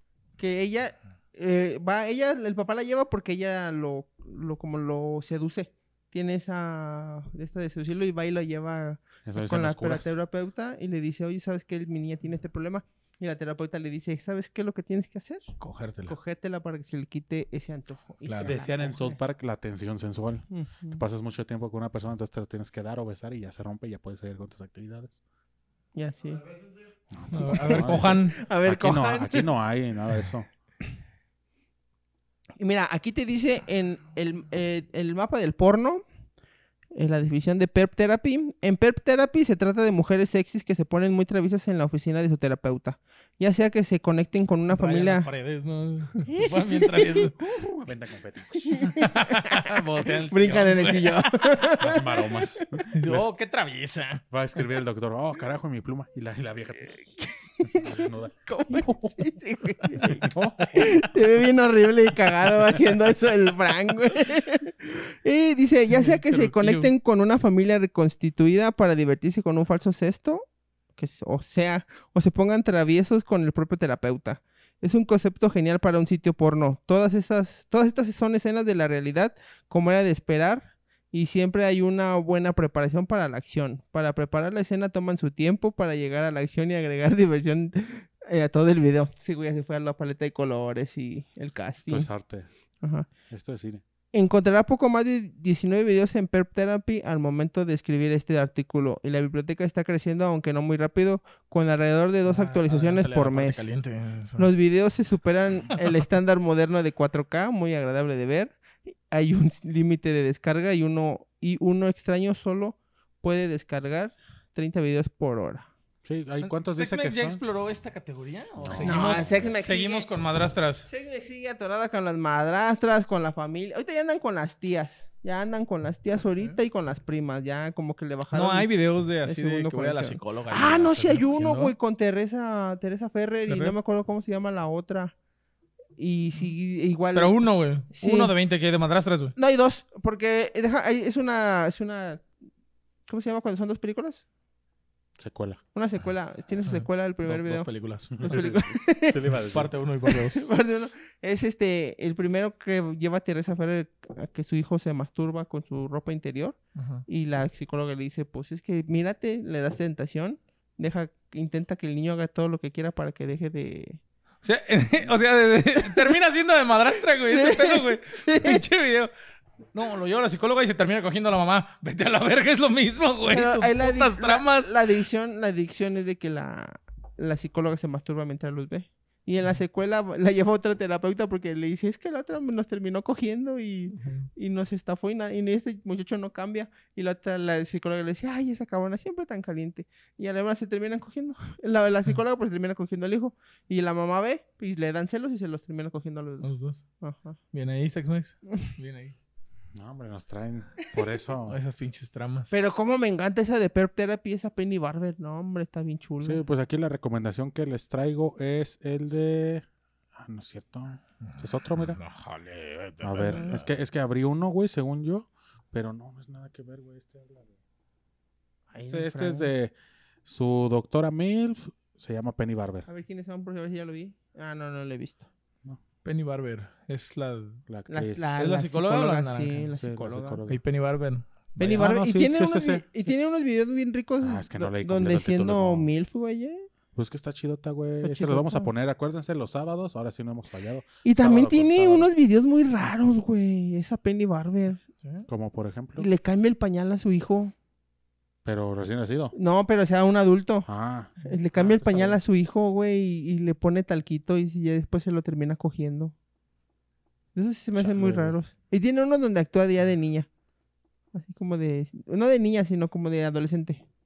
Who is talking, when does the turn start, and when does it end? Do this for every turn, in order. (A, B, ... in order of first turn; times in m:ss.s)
0:00.4-0:15.5 A
0:09.2-0:10.1 B
0:15.6-0:16.1 C
0:16.0-0:19.2 A
0:18.2-0:18.5 C
0:18.4-0:25.2 B
0:20.5-0:21.0 A
0:25.9-0:26.5 A
0:27.1-0:30.5 B
0:27.3-0:28.4 C
0:27.4-0:29.5 A
0:32.6-0:36.0 A
0:36.9-0:45.3 A
0:44.7-0:47.4 C
0:46.3-0:47.8 A
0:47.8-0:48.8 B
0:48.6-0:52.8 A
0:48.8-0:51.5 C
0:51.8-0:53.3 B
0:52.9-0:54.2 C
0:54.3-0:57.0 B
0:57.0-1:32.1 A
0:57.6-0:59.3 B
0:59.9-1:01.0 B
1:05.9-1:06.9 C
1:31.8-1:32.5 B
1:32.8-1:33.1 A
1:33.3-1:33.8 B
1:34.1-1:43.6 A
1:42.2-1:44.5 C
1:44.4-1:55.7 A
1:56.0-1:57.4 B
1:56.4-2:00.9 C
1:58.6-1:59.4 B
1:58.8-2:00.1 A
2:00.9-2:08.7 A
2:08.3-2:11.7 C
2:09.2-2:15.1 A
2:13.5-2:13.8 C
2:16.0-2:17.4 A
2:17.1-2:19.3 C
2:17.9-2:18.3 A
2:19.4-2:22.2 A
2:23.1-2:24.2 A
2:25.2-2:25.6 B
2:25.7-2:27.7 A
2:26.6-2:28.5 C
2:28.2-2:29.7 B
2:28.2-2:29.2 A
2:29.5-2:30.5 C
2:30.0-2:44.0 A
2:36.7-2:37.0 C
2:44.4-2:49.1 C
2:45.8-2:46.1 A
2:47.2-2:48.6 A
2:49.7-2:54.7 C
2:53.3-3:17.4 A
3:03.9-3:04.3 C
3:16.4-3:16.8 C
3:17.5-3:19.1 C
3:19.8-3:21.6 B
3:21.5-3:22.5 C
3:22.5-3:26.4 A
3:26.2-3:32.0 B
3:31.2-3:33.7 C
3:33.0-3:37.5 B
3:38.7-3:39.5 A
3:38.9-3:39.7 B
3:40.2-3:42.8 B
3:42.8-3:45.2 A
3:46.0-3:47.6 C
3:47.7-3:48.3 B
3:47.9-3:50.4 A
3:48.4-3:49.7 C
3:49.7-3:50.6 B
3:50.5-3:51.9 C
3:51.6-3:56.6 A
3:51.6-3:52.8 B
3:54.2-3:55.9 B
3:56.9-4:02.1 B
3:58.0-3:58.7 A
4:01.0-4:04.8 A
4:05.0-4:05.3 C
4:05.3-4:06.1 B
4:06.0-4:07.5 A
4:08.4-4:09.3 B
4:09.3-4:10.7 A
4:10.6-4:12.2 B
4:11.2-4:16.1 A
4:17.3-4:20.3 A
4:17.8-4:18.4 B
4:21.1-4:23.8 A